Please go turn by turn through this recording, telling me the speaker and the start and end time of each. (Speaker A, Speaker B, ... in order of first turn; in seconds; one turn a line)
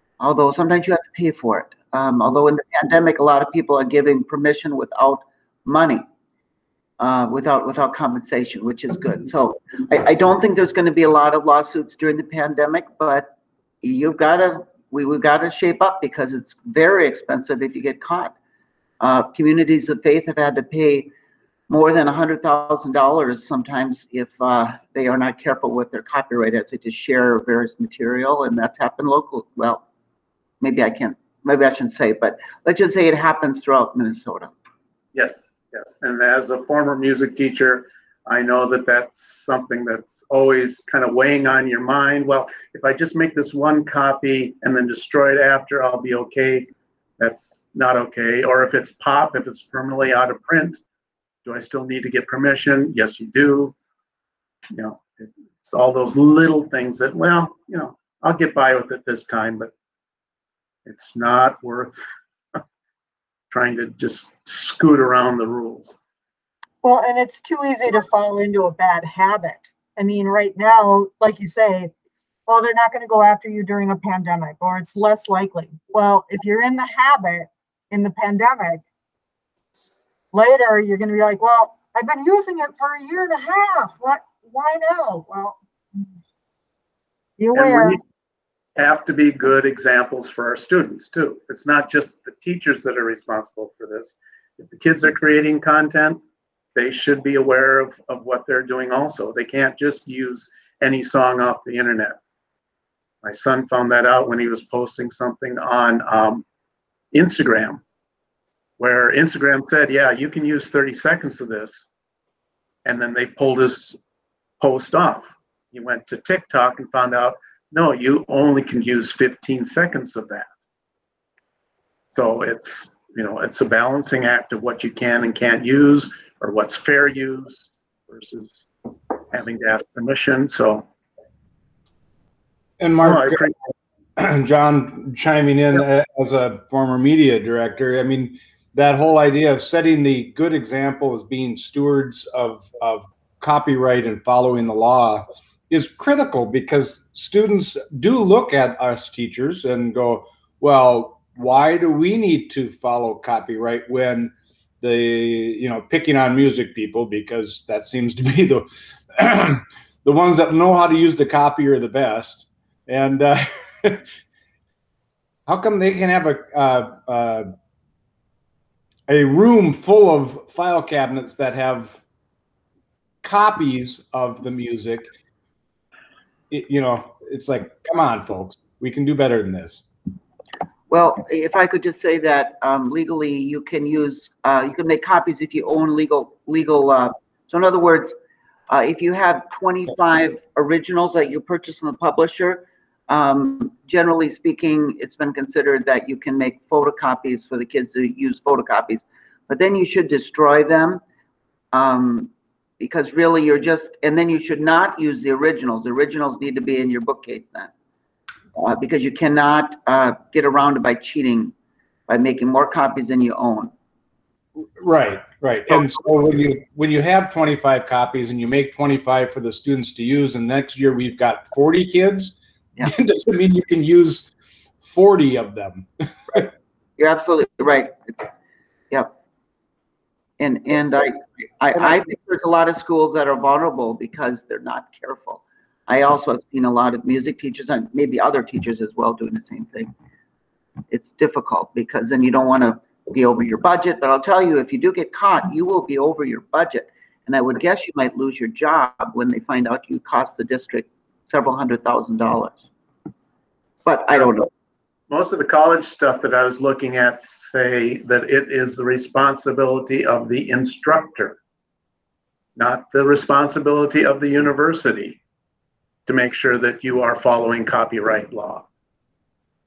Speaker A: 0.2-6.0
Speaker A: 7.0-18.4
Speaker A: 19.0-21.1
Speaker A: 21.7-29.8
Speaker A: 30.6-34.5
Speaker B: 35.1-50.8
Speaker B: 51.4-53.7
Speaker B: 54.7-59.7
Speaker B: 60.9-62.0
Speaker B: 63.5-66.0
Speaker C: 66.8-71.9
Speaker C: 72.5-78.8
Speaker C: 80.3-85.6
Speaker C: 87.4-88.0
Speaker B: 87.5-88.0
Speaker B: 88.8-96.2
Speaker B: 96.7-102.2
Speaker B: 103.2-106.4
Speaker B: 107.1-107.8
Speaker B: 108.8-111.9
Speaker B: 112.8-114.0
Speaker B: 114.6-120.5
Speaker B: 122.1-128.7
Speaker B: 129.3-130.9
Speaker D: 132.8-133.4
Speaker B: 133.0-133.6
Speaker D: 134.2-164.0
Speaker D: 165.5-167.5
Speaker D: 169.1-172.0
Speaker D: 173.2-175.1
Speaker D: 176.5-179.8
Speaker A: 180.9-188.2
Speaker A: 188.7-201.0
Speaker A: 201.7-207.7
Speaker A: 208.6-211.5
Speaker A: 212.1-213.7
Speaker D: 214.8-224.3
Speaker D: 224.8-226.4
Speaker A: 227.0-228.3
Speaker A: 230.4-239.9
Speaker A: 240.9-252.6
Speaker A: 253.8-254.5
Speaker B: 255.1-261.4
Speaker B: 262.6-265.2
Speaker B: 266.1-268.7